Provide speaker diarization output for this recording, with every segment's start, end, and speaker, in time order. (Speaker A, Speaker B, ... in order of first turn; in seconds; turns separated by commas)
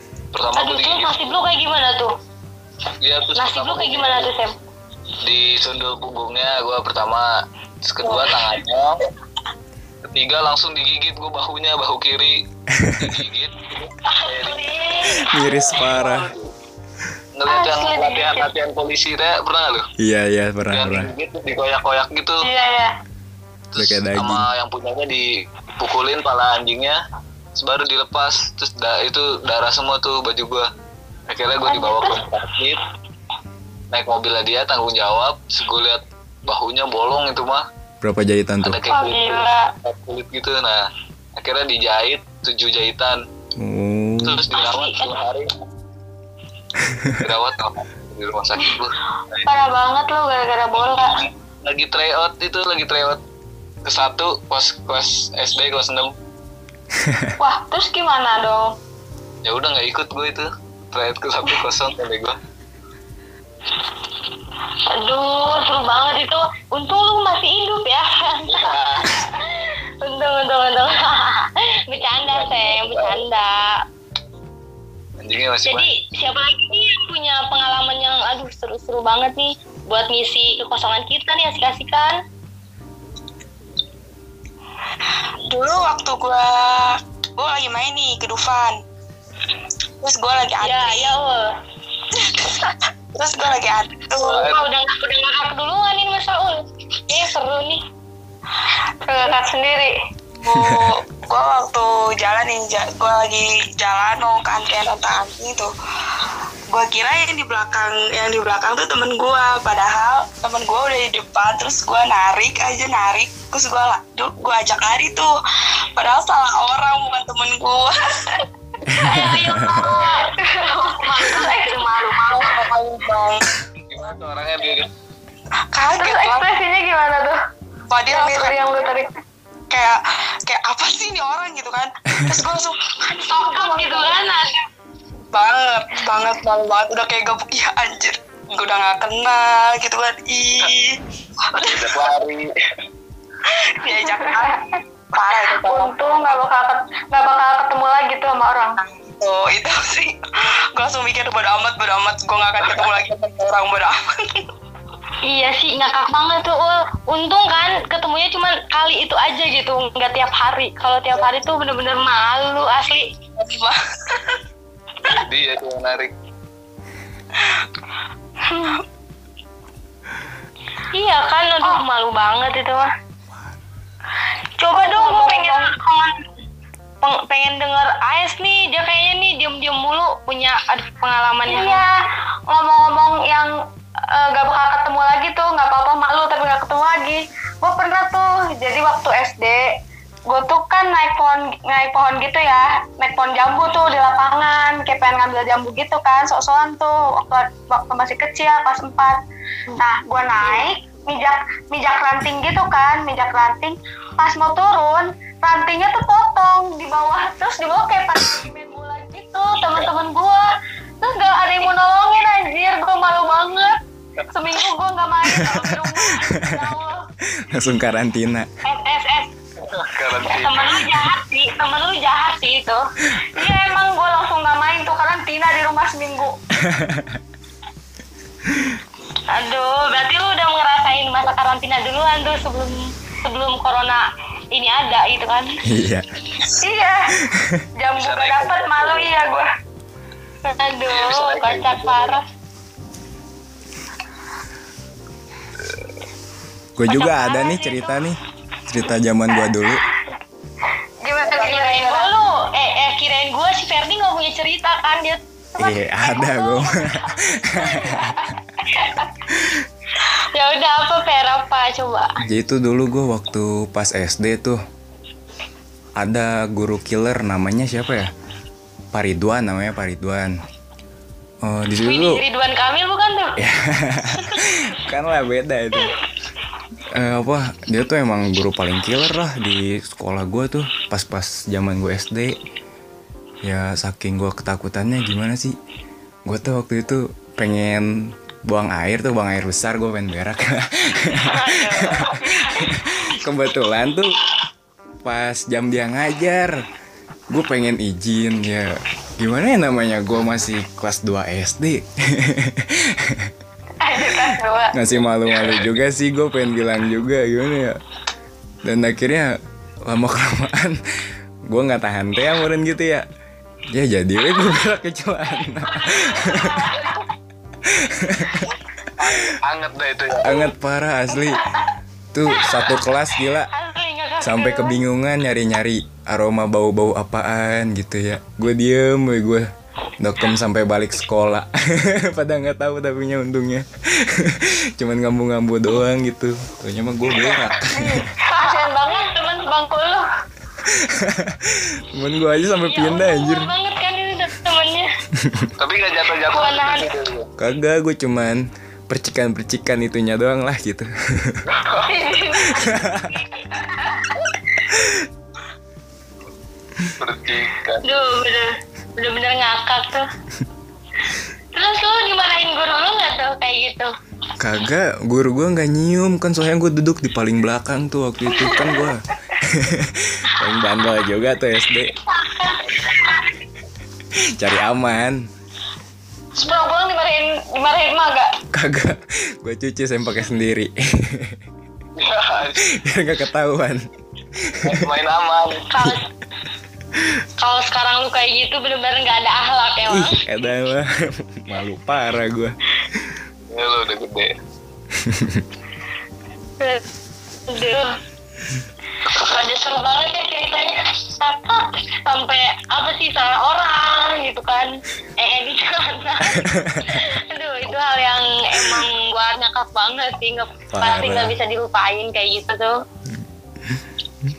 Speaker A: 0.3-1.4, Speaker B: 0.6-2.1, Speaker A: 3.0-4.3, Speaker B: 3.3-4.5, Speaker A: 5.2-7.3, Speaker A: 7.8-9.0, Speaker A: 10.0-12.4, Speaker C: 12.7-13.2, Speaker A: 13.0-14.6, Speaker B: 14.1-15.6, Speaker C: 15.2-16.3, Speaker A: 15.3-16.5, Speaker A: 17.4-19.9, Speaker D: 17.5-18.5, Speaker C: 20.0-21.1, Speaker A: 20.7-22.5, Speaker D: 22.4-22.9, Speaker A: 23.7-27.0, Speaker C: 23.7-24.5, Speaker A: 27.6-30.7, Speaker A: 31.3-32.8, Speaker D: 31.7-32.1, Speaker A: 33.9-37.6, Speaker C: 38.0-38.8, Speaker A: 38.6-40.8, Speaker B: 38.9-39.6, Speaker D: 39.2-39.5, Speaker A: 41.4-43.2, Speaker C: 43.6-44.4, Speaker A: 44.2-45.5, Speaker B: 44.5-45.1, Speaker C: 46.8-47.2, Speaker A: 47.2-49.5, Speaker D: 49.5-51.1, Speaker A: 51.6-53.2, Speaker A: 53.8-56.1, Speaker C: 56.9-57.3, Speaker D: 57.4-58.8, Speaker A: 59.4-62.4, Speaker B: 64.7-73.8, Speaker A: 68.6-69.0, Speaker A: 72.3-73.2, Speaker A: 75.2-75.9, Speaker B: 75.7-82.2, Speaker E: 85.5-88.8, Speaker E: 90.0-91.1, Speaker B: 90.6-91.5, Speaker E: 92.1-94.5, Speaker B: 94.2-97.8, Speaker A: 94.3-94.7, Speaker D: 99.0-99.9, Speaker E: 100.4-105.7, Speaker C: 100.5-100.9, Speaker E: 106.7-115.3, Speaker E: 116.0-118.4, Speaker C: 118.9-119.9, Speaker B: 119.0-120.3, Speaker D: 120.3-122.6, Speaker B: 120.9-122.2, Speaker E: 122.3-123.5, Speaker A: 123.9-124.9, Speaker E: 125.7-126.5, Speaker D: 125.9-127.4, Speaker E: 127.9-128.7, Speaker D: 128.1-129.2, Speaker E: 129.7-132.9, Speaker D: 133.1-134.2, Speaker B: 133.1-134.7, Speaker E: 135.3-142.1, Speaker A: 141.6-142.5, Speaker E: 143.4-144.6, Speaker D: 143.9-144.8, Speaker E: 145.1-145.9, Speaker D: 145.6-148.8, Speaker E: 149.2-154.5, Speaker B: 155.2-163.1, Speaker E: 163.4-164.4, Speaker A: 165.1-166.1, Speaker D: 168.5-168.8, Speaker B: 170.9-172.9, Speaker B: 174.6-176.2, Speaker D: 174.8-175.7, Speaker B: 177.0-181.8, Speaker D: 181.5-183.5, Speaker D: 184.1-189.7, Speaker D: 190.3-199.2, Speaker D: 199.8-210.5, Speaker B: 200.4-200.7, Speaker D: 211.0-213.8, Speaker D: 214.3-217.0, Speaker C: 215.3-216.7, Speaker C: 217.5-218.5, Speaker B: 218.6-219.3, Speaker A: 219.6-220.8, Speaker B: 220.2-222.8, Speaker D: 223.3-226.4, Speaker C: 226.6-227.2, Speaker C: 228.5-228.8, Speaker B: 229.3-235.5, Speaker C: 235.6-236.1, Speaker D: 236.6-237.2, Speaker C: 237.2-237.6, Speaker D: 237.8-239.4, Speaker A: 238.0-239.1, Speaker B: 240.4-242.2, Speaker A: 240.9-242.2, Speaker C: 246.8-249.9, Speaker D: 246.9-248.0, Speaker D: 251.0-252.1, Speaker B: 251.3-256.5, Speaker C: 255.6-258.3, Speaker D: 256.1-256.9, Speaker D: 257.5-258.1, Speaker D: 258.8-259.0, Speaker C: 259.3-259.6, Speaker B: 260.3-262.1, Speaker C: 262.2-264.6, Speaker C: 266.0-268.1, Speaker C: 268.9-270.4, Speaker C: 271.4-272.2, Speaker B: 271.8-273.4, Speaker C: 273.4-275.9, Speaker C: 276.9-282.4, Speaker C: 283.4-285.6, Speaker C: 286.2-287.9, Speaker C: 288.5-294.1, Speaker B: 291.3-292.7, Speaker C: 295.0-296.6, Speaker C: 297.3-303.3, Speaker D: 303.8-304.8, Speaker A: 304.0-304.3, Speaker C: 304.7-307.8, Speaker A: 305.3-305.7, Speaker C: 308.6-309.3, Speaker C: 309.9-310.8, Speaker C: 311.5-313.0, Speaker C: 313.7-316.7, Speaker D: 316.0-316.9, Speaker C: 317.6-318.5, Speaker A: 319.0-320.4, Speaker C: 320.2-321.4, Speaker C: 322.1-323.5, Speaker B: 323.5-324.8, Speaker C: 324.2-329.5, Speaker C: 330.0-338.1, Speaker D: 337.7-340.0, Speaker B: 338.4-339.2, Speaker C: 340.6-343.5, Speaker B: 342.7-344.9, Speaker C: 345.1-345.5, Speaker A: 345.6-347.3, Speaker B: 346.3-346.9, Speaker C: 347.4-351.4, Speaker A: 351.4-352.0, Speaker D: 351.9-352.8, Speaker C: 352.5-353.1, Speaker D: 353.3-354.0, Speaker C: 354.7-355.1, Speaker A: 357.0-357.8, Speaker B: 357.8-360.1, Speaker B: 361.5-363.9, Speaker C: 364.4-371.9, Speaker B: 372.1-372.9, Speaker D: 372.3-372.8, Speaker C: 374.4-375.2, Speaker D: 376.3-378.3, Speaker C: 378.5-381.4, Speaker A: 381.9-382.7, Speaker C: 382.7-383.8, Speaker C: 384.4-384.9, Speaker A: 384.6-385.7, Speaker B: 385.7-386.0, Speaker B: 387.4-390.2, Speaker C: 389.9-393.1, Speaker A: 393.5-394.3, Speaker C: 394.9-395.4, Speaker B: 397.5-397.9, Speaker B: 399.0-412.7, Speaker C: 406.4-407.0, Speaker C: 410.7-411.3